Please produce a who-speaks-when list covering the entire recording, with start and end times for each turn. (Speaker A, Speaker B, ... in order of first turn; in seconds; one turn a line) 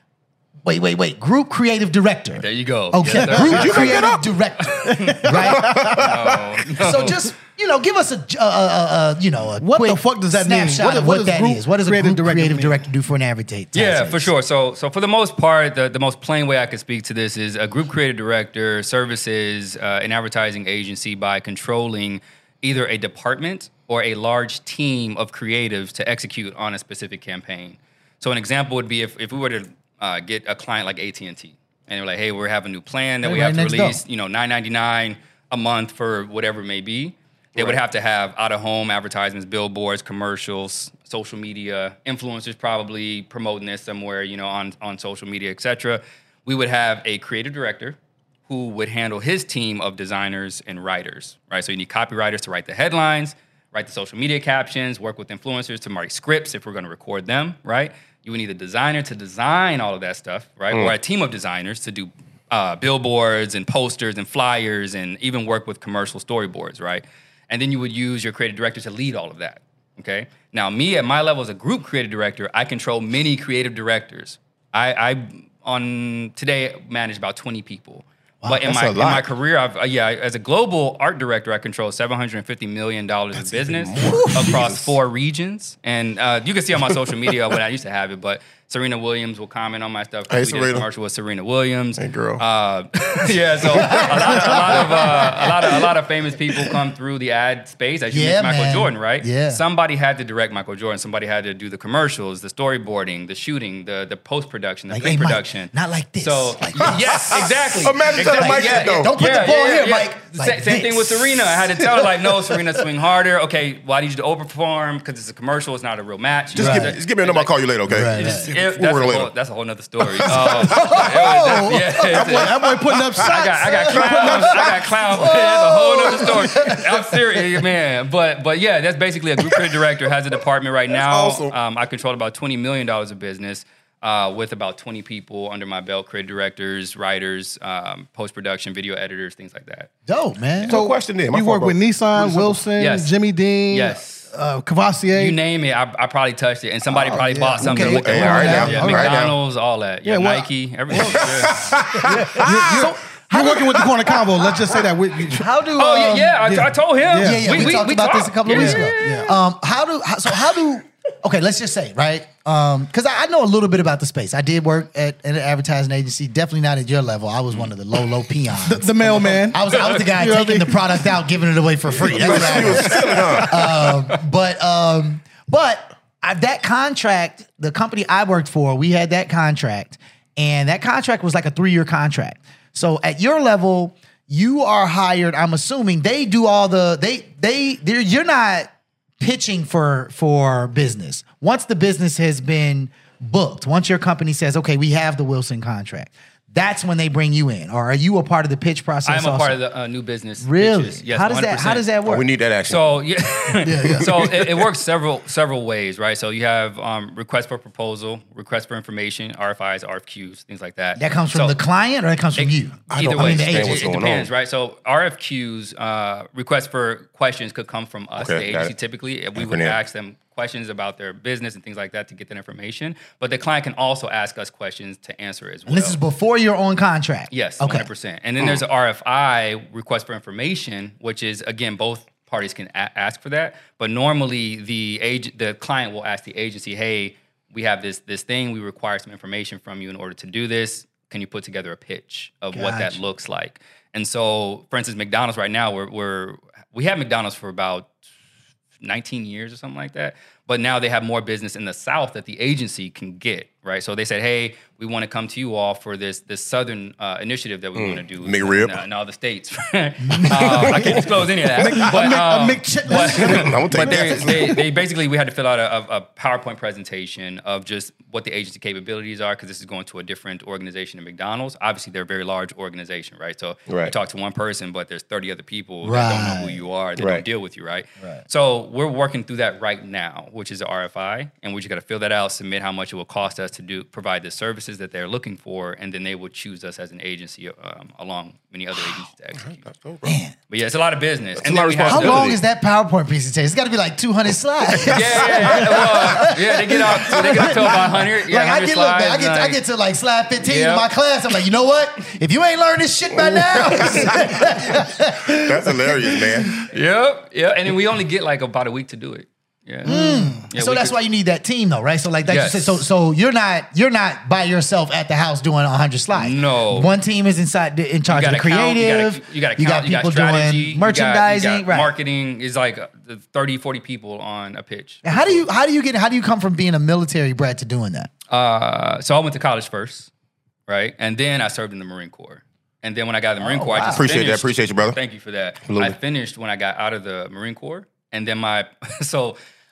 Speaker A: 0.6-6.2
Speaker B: 2.4-4.0
Speaker C: 3.1-3.7
Speaker D: 3.3-4.3
Speaker C: 4.8-6.0
Speaker D: 5.6-6.2
Speaker B: 5.7-7.2
Speaker A: 6.7-14.3
Speaker C: 9.6-12.7
Speaker B: 13.7-117.5
Speaker A: 33.2-34.0
Speaker D: 37.5-37.8
Speaker D: 78.6-79.3
Speaker D: 83.4-84.9
Speaker A: 84.0-84.6
Speaker D: 90.3-90.8
Speaker D: 92.0-92.4
Speaker A: 93.7-95.7
Speaker D: 94.5-94.8
Speaker A: 98.1-99.6
Speaker A: 104.9-112.1
Speaker D: 107.3-109.1
Speaker A: 116.5-117.0
Speaker D: 116.5-119.3
Speaker A: 117.9-118.5
Speaker B: 118.0-122.5
Speaker D: 120.1-121.4
Speaker A: 120.2-122.3
Speaker C: 122.1-124.8
Speaker D: 122.2-123.3
Speaker B: 123.2-139.9
Speaker D: 123.9-124.4
Speaker A: 125.1-127.1
Speaker D: 130.9-131.5
Speaker A: 140.1-140.8
Speaker D: 140.7-142.6
Speaker C: 140.7-145.4
Speaker B: 142.8-143.1
Speaker B: 143.7-144.3
Speaker B: 145.2-151.8
Speaker A: 146.9-149.2
Speaker D: 147.6-149.3
Speaker C: 150.0-151.3
Speaker D: 151.2-152.9
Speaker A: 152.0-153.8
Speaker C: 152.0-155.5
Speaker A: 155.3-156.4
Speaker B: 155.8-159.4
Speaker C: 156.4-157.9
Speaker A: 157.2-199.6
Speaker C: 158.5-159.3
Speaker C: 168.6-171.0
Speaker D: 172.0-173.9
Speaker B: 199.0-201.9
Speaker A: 200.4-202.2
Speaker D: 202.0-203.0
Speaker B: 202.7-211.6
Speaker A: 203.6-204.2
Speaker D: 203.8-204.5
Speaker A: 211.0-213.9
Speaker B: 212.4-226.0
Speaker D: 212.9-214.3
Speaker D: 218.2-218.7
Speaker D: 219.3-219.8
Speaker A: 225.7-227.9
Speaker B: 227.3-247.9
Speaker A: 242.5-243.1
Speaker B: 248.8-289.5
Speaker D: 257.8-258.8
Speaker A: 260.0-261.0
Speaker D: 260.3-261.0
Speaker C: 261.6-264.5
Speaker D: 261.6-262.2
Speaker D: 262.9-264.6
Speaker D: 273.7-273.9
Speaker A: 275.8-276.6
Speaker D: 277.0-277.2
Speaker D: 289.4-290.1
Speaker A: 290.0-290.4
Speaker B: 290.5-292.3
Speaker D: 291.4-292.4
Speaker A: 291.9-306.6
Speaker D: 294.7-296.1
Speaker B: 294.9-299.6
Speaker D: 297.1-297.8
Speaker B: 300.4-300.9
Speaker D: 303.1-306.6
Speaker B: 306.6-311.0
Speaker C: 309.8-310.4
Speaker A: 309.8-321.9
Speaker B: 312.3-312.9
Speaker B: 316.1-316.9
Speaker B: 318.1-325.4
Speaker A: 325.0-328.1
Speaker B: 328.3-330.1
Speaker B: 330.7-339.4
Speaker A: 333.4-334.1
Speaker D: 333.8-335.0
Speaker D: 335.6-335.9